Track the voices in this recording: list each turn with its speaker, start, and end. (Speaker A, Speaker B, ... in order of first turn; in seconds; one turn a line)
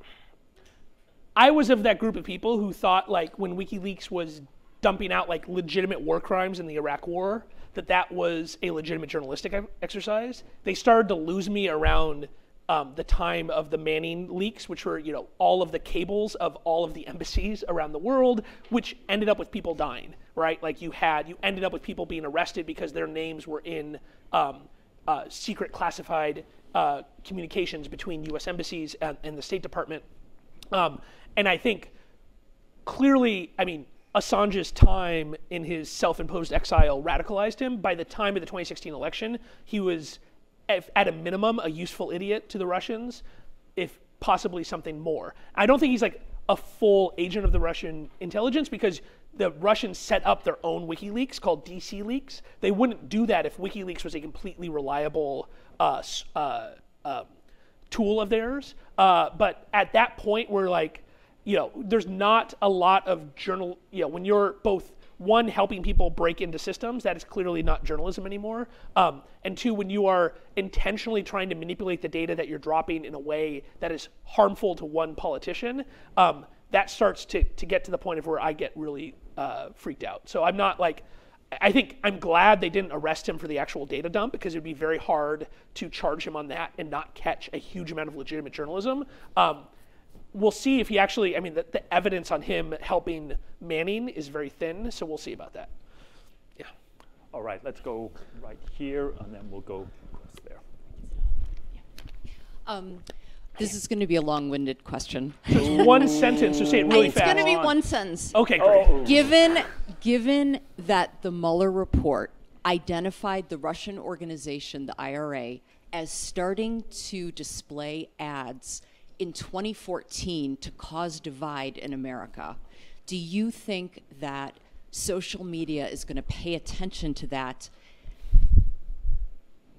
Speaker A: 1.4-30.0
Speaker A: 30.7-31.9
Speaker A: 32.9-43.2
Speaker A: 43.8-57.3
Speaker A: 57.9-89.7
Speaker A: 90.3-95.7
Speaker B: 97.3-100.6
Speaker C: 102.7-103.0
Speaker C: 103.5-127.7
Speaker A: 105.5-107.5
Speaker B: 105.7-105.9
Speaker B: 106.8-107.7
Speaker A: 108.3-109.0
Speaker B: 108.6-109.3